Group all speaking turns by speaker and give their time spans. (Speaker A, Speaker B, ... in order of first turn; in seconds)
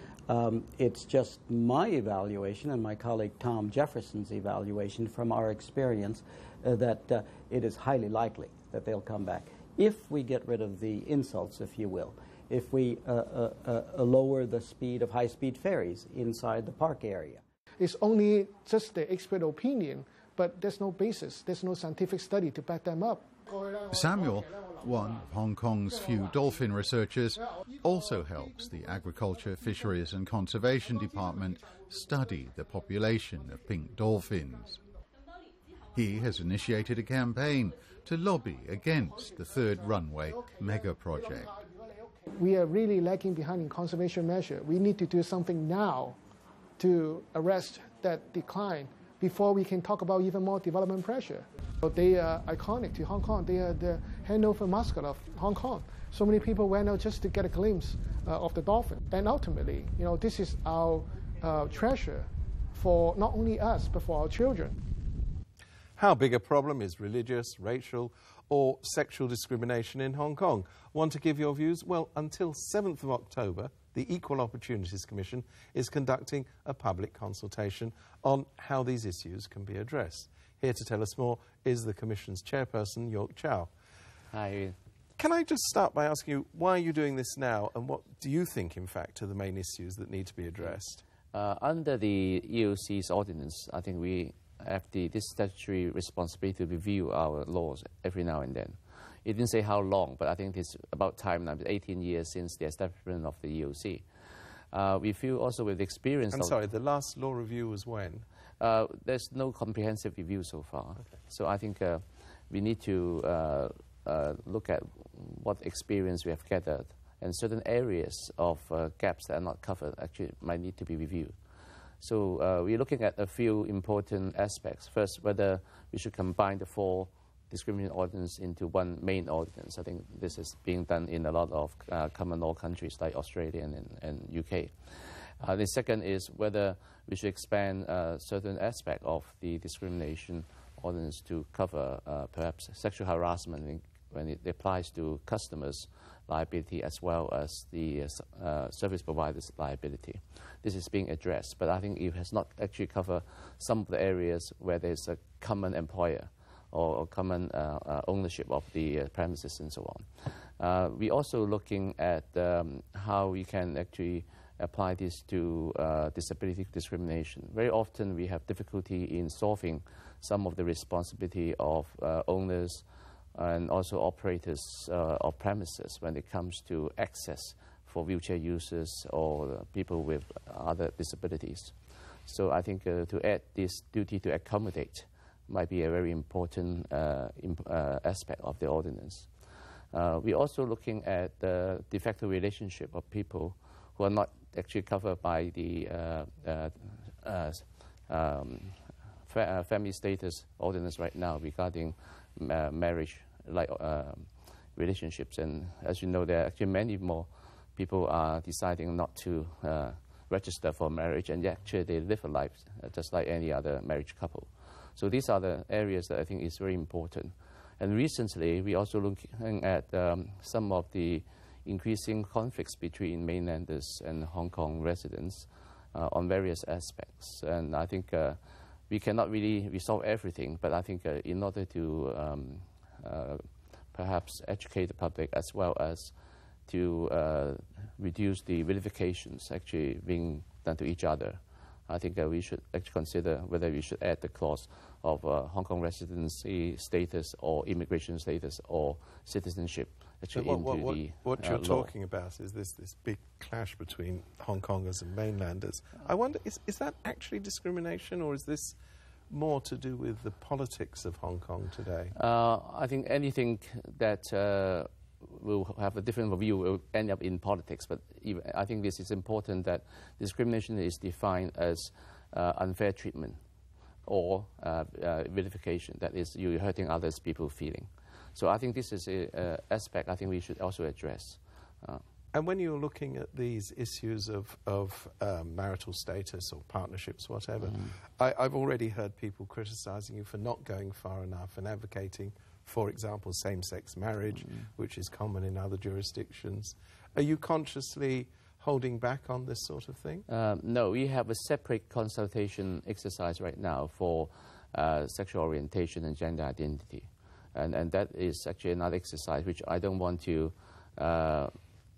Speaker A: 0.3-17.4
Speaker B: 17.8-23.8, 41.7-46.2, 46.8-64.8
Speaker C: 23.9-34.8, 35.9-41.5
Speaker D: 66.0-83.7, 85.2-91.0, 106.3-108.2, 250.3-258.8, 259.3-262.1, 282.3-300.2
Speaker E: 84.3-84.8, 91.3-104.0, 104.7-106.6, 108.6-121.3, 122.0-172.8, 173.3-181.7, 182.2-189.3, 189.9-228.4, 228.9-236.1, 236.7-251.9, 262.1-273.4, 274.1-282.0, 300.3-311.5